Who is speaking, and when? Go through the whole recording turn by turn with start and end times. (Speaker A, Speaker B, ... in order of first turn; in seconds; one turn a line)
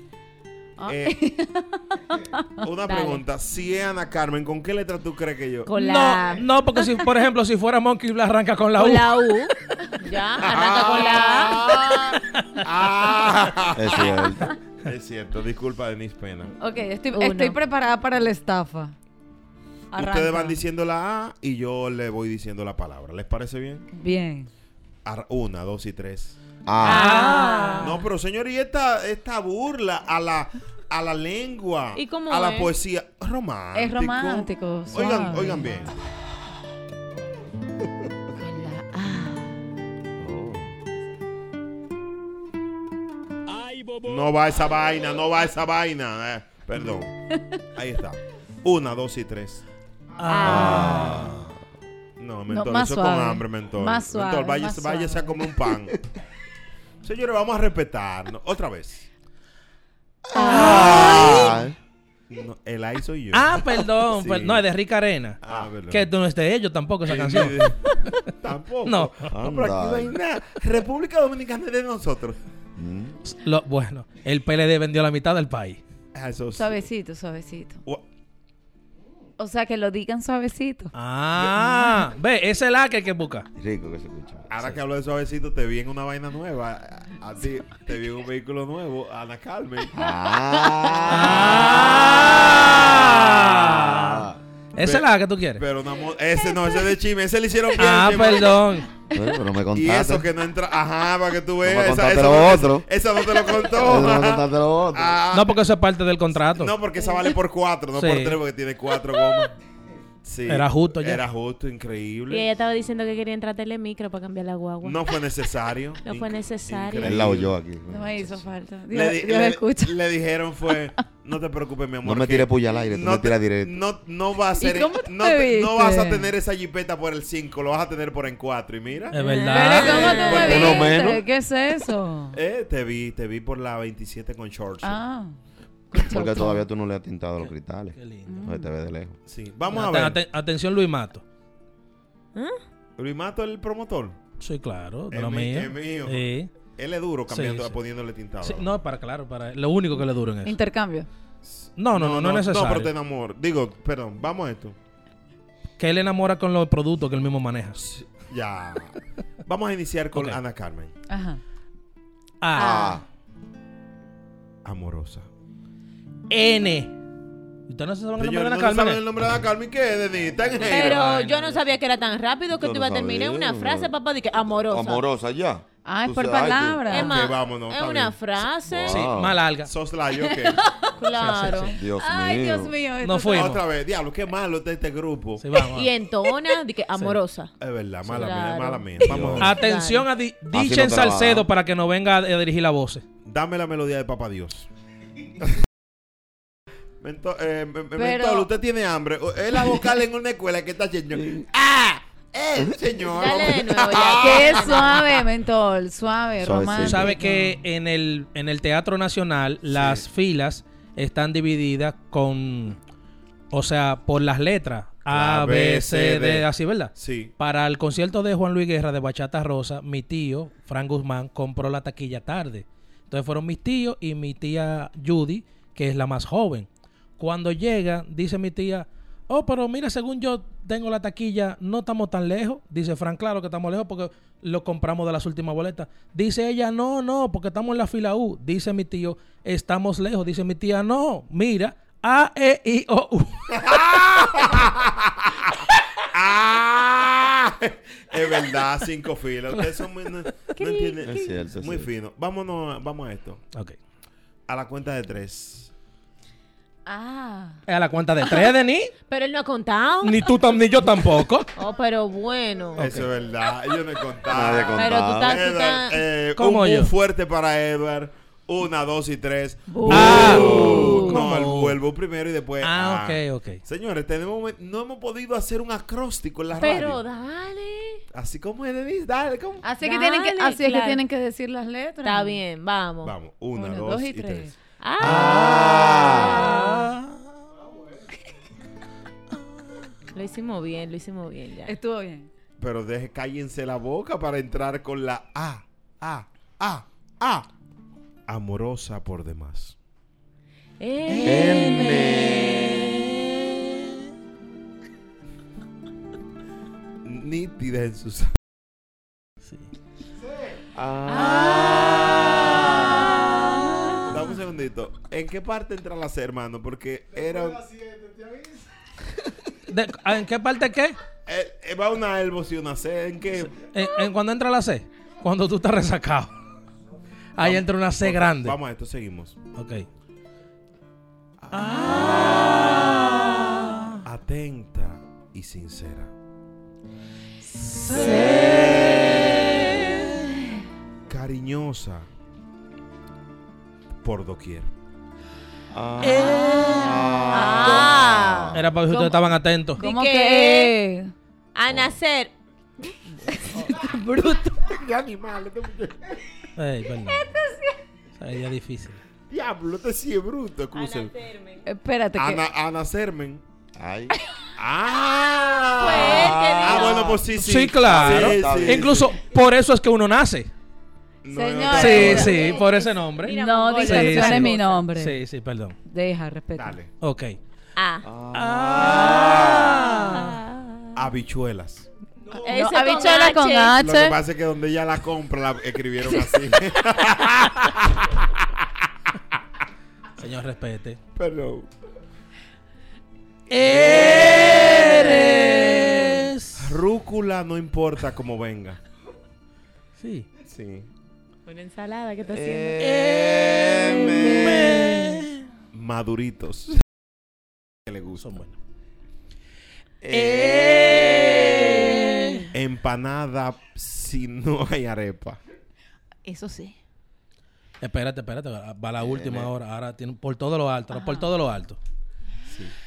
Speaker A: 0.8-2.6
Speaker B: 0.9-1.2
Speaker B: 2.6-5.7
Speaker C: 2.9-3.2
Speaker C: 5.7-6.5
Speaker D: 5.8-9.3
Speaker C: 8.8-11.7
Speaker B: 10.5-16.5
Speaker A: 11.4-12.1
Speaker E: 13.8-14.5
Speaker A: 16.6-18.9
Speaker C: 17.1-17.6
Speaker A: 19.9-20.6
Speaker B: 19.9-23.9
Speaker A: 23.9-24.5
Speaker B: 25.1-26.4
Speaker E: 26.7-27.1
Speaker C: 26.8-28.0
Speaker D: 26.9-27.9
Speaker B: 27.8-35.9
Speaker C: 31.9-32.7
Speaker A: 33.8-35.9
Speaker A: 38.4-39.6
Speaker E: 40.2-40.7
Speaker B: 44.0-47.1
Speaker B: 47.7-49.6
Speaker D: 50.2-51.3
Speaker C: 50.2-51.2
Speaker E: 50.4-51.5
Speaker B: 52.2-56.0
Speaker A: 52.5-55.6
Speaker B: 57.0-59.1
Speaker E: 60.3-61.8
Speaker A: 60.3-61.5
Speaker D: 60.4-61.4
Speaker B: 60.7-61.5
Speaker B: 62.3-64.6
Speaker D: 63.3-65.4
Speaker B: 65.4-66.1
Speaker D: 65.9-68.2
Speaker B: 67.1-67.8
Speaker B: 68.4-72.4
Speaker D: 68.9-69.2
Speaker E: 69.3-70.2
Speaker E: 72.8-73.2
Speaker D: 73.3-75.8
Speaker B: 76.1-76.8
Speaker A: 76.5-77.8
Speaker A: 79.4-80.9
Speaker D: 81.0-83.5
Speaker E: 83.6-84.5
Speaker B: 84.5-89.9
Speaker E: 89.9-94.4
Speaker A: 90.6-91.2
Speaker D: 91.1-95.6
Speaker B: 94.8-98.6
Speaker D: 97.8-98.9
Speaker E: 99.1-100.3
Speaker B: 99.7-105.6
Speaker E: 101.6-102.9
Speaker E: 103.8-105.2
Speaker D: 105.3-106.7
Speaker B: 106.5-109.5
Speaker D: 108.0-108.4
Speaker B: 110.2-112.5
Speaker D: 110.5-111.2
Speaker C: 112.3-115.1
Speaker B: 114.8-117.5
Speaker C: 116.0-117.2
Speaker E: 117.0-118.5
Speaker A: 117.9-120.0
Speaker B: 118.9-131.1
Speaker E: 122.0-123.8
Speaker A: 124.6-126.3
Speaker D: 129.1-130.3
Speaker C: 129.2-130.8
Speaker A: 129.2-132.4
Speaker E: 130.4-131.2
Speaker B: 132.3-135.0
Speaker A: 134.8-135.3
Speaker A: 135.9-136.7
Speaker E: 136.0-139.2
Speaker D: 137.4-138.4
Speaker A: 138.3-138.7
Speaker B: 139.3-140.2
Speaker D: 139.7-141.2
Speaker C: 142.3-142.6
Speaker B: 143.0-144.2
Speaker D: 144.4-146.5
Speaker B: 145.1-148.8
Speaker D: 147.3-147.8
Speaker D: 148.4-150.6
Speaker A: 150.4-151.1
Speaker B: 151.5-154.8
Speaker D: 151.8-152.9
Speaker D: 155.8-157.8
Speaker B: 157.8-160.9
Speaker A: 161.1-161.4
Speaker D: 162.4-163.0
Speaker E: 162.6-163.0
Speaker B: 164.7-165.3
Speaker D: 166.3-166.9
Speaker D: 167.7-169.0
Speaker B: 168.2-171.0
Speaker C: 170.6-175.1
Speaker D: 170.7-171.6
Speaker E: 172.6-173.9
Speaker E: 174.7-176.9
Speaker A: 175.8-177.2
Speaker C: 176.9-179.1
Speaker B: 177.0-178.3
Speaker E: 178.7-179.4
Speaker D: 178.9-179.7
Speaker B: 179.6-180.7
Speaker A: 180.3-183.6
Speaker C: 181.0-181.8
Speaker D: 181.2-181.7
Speaker E: 181.7-182.7
Speaker D: 183.0-183.6
Speaker B: 183.3-185.4
Speaker D: 185.4-185.9
Speaker C: 185.7-187.5
Speaker B: 187.6-189.6
Speaker C: 188.1-190.1
Speaker E: 189.1-189.5
Speaker D: 189.4-193.0
Speaker E: 190.5-191.5
Speaker B: 193.2-194.7
Speaker B: 197.0-205.0
Speaker A: 198.0-198.5
Speaker E: 201.2-201.4
Speaker C: 203.1-205.1
Speaker A: 204.2-207.5
Speaker E: 206.4-207.2
Speaker D: 206.8-212.8
Speaker B: 209.7-210.0
Speaker D: 213.5-226.7
Speaker B: 215.1-217.3
Speaker D: 227.2-243.8
Speaker B: 243.5-245.3
Speaker B: 246.1-253.4
Speaker E: 251.0-251.9
Speaker B: 254.5-255.7
Speaker A: 256.9-257.6
Speaker D: 257.7-258.9
Speaker C: 259.1-260.3
Speaker D: 260.0-261.5
Speaker C: 261.6-262.9
Speaker D: 262.8-263.1
Speaker B: 262.8-277.0
Speaker E: 264.3-265.4
Speaker C: 264.8-266.1
Speaker D: 266.4-266.9
Speaker A: 269.7-271.1
Speaker C: 269.9-271.1
Speaker D: 269.9-271.8
Speaker D: 272.6-273.6
Speaker C: 276.5-278.0
Speaker B: 278.1-279.6
Speaker A: 279.6-282.4
Speaker C: 279.8-281.0
Speaker C: 282.0-283.1
Speaker B: 283.0-285.6
Speaker A: 283.6-284.5
Speaker C: 284.8-286.9
Speaker E: 285.0-286.2
Speaker A: 286.3-286.8
Speaker C: 290.1-291.8
Speaker A: 291.7-292.3
Speaker B: 292.6-297.5
Speaker B: 298.3-299.8
Speaker C: 300.8-303.4
Speaker E: 301.2-302.5
Speaker D: 301.3-301.9
Speaker B: 307.0-308.3
Speaker E: 310.8-311.8
Speaker C: 311.1-311.9
Speaker D: 311.4-312.6
Speaker B: 314.1-317.8
Speaker D: 319.7-321.0
Speaker B: 321.3-323.6
Speaker D: 323.6-326.4
Speaker D: 327.4-328.6
Speaker B: 327.4-329.4
Speaker D: 329.6-329.9
Speaker B: 331.4-332.6
Speaker D: 331.5-333.9
Speaker B: 334.0-336.1
Speaker B: 337.4-338.4
Speaker C: 337.9-338.9
Speaker D: 338.0-338.5
Speaker B: 341.1-342.1
Speaker B: 344.0-344.7
Speaker E: 345.7-348.6
Speaker D: 346.0-347.1
Speaker C: 346.2-348.6
Speaker A: 347.3-348.0
Speaker D: 348.5-349.8
Speaker A: 348.9-351.1
Speaker C: 349.8-350.8
Speaker C: 351.6-353.0
Speaker A: 353.4-354.7
Speaker B: 354.7-356.2
Speaker D: 356.6-357.3
Speaker A: 357.3-357.6
Speaker D: 358.2-359.0
Speaker B: 359.3-361.1
Speaker C: 360.7-361.7
Speaker A: 361.7-362.4
Speaker B: 362.2-363.4
Speaker E: 363.8-364.2
Speaker B: 364.6-369.1
Speaker C: 365.8-367.2
Speaker E: 366.1-366.9
Speaker D: 367.4-370.5
Speaker E: 367.9-369.0
Speaker B: 371.2-372.5
Speaker A: 371.3-372.5
Speaker D: 371.7-375.8
Speaker C: 371.9-374.8
Speaker A: 373.3-375.2
Speaker A: 375.9-376.8
Speaker B: 376.6-376.9
Speaker D: 377.0-377.4
Speaker C: 377.8-378.1
Speaker E: 378.0-379.5
Speaker D: 378.3-380.4
Speaker C: 378.8-381.0
Speaker B: 380.9-381.9
Speaker C: 382.3-383.8
Speaker A: 382.4-384.2
Speaker B: 383.8-388.5
Speaker D: 390.2-391.0
Speaker B: 391.2-391.7
Speaker D: 393.5-396.8
Speaker B: 393.9-394.5
Speaker B: 396.6-398.8
Speaker D: 400.0-400.3
Speaker B: 400.4-400.9
Speaker C: 401.5-403.0
Speaker E: 402.3-404.1
Speaker D: 402.8-405.5
Speaker B: 403.6-404.6
Speaker B: 405.7-406.8
Speaker B: 407.9-408.3
Speaker D: 408.2-408.6
Speaker E: 410.0-411.2
Speaker D: 410.1-412.5
Speaker B: 412.5-415.4
Speaker A: 416.2-416.8
Speaker D: 417.8-421.8
Speaker B: 419.2-419.4
Speaker A: 420.9-421.3
Speaker B: 422.5-422.7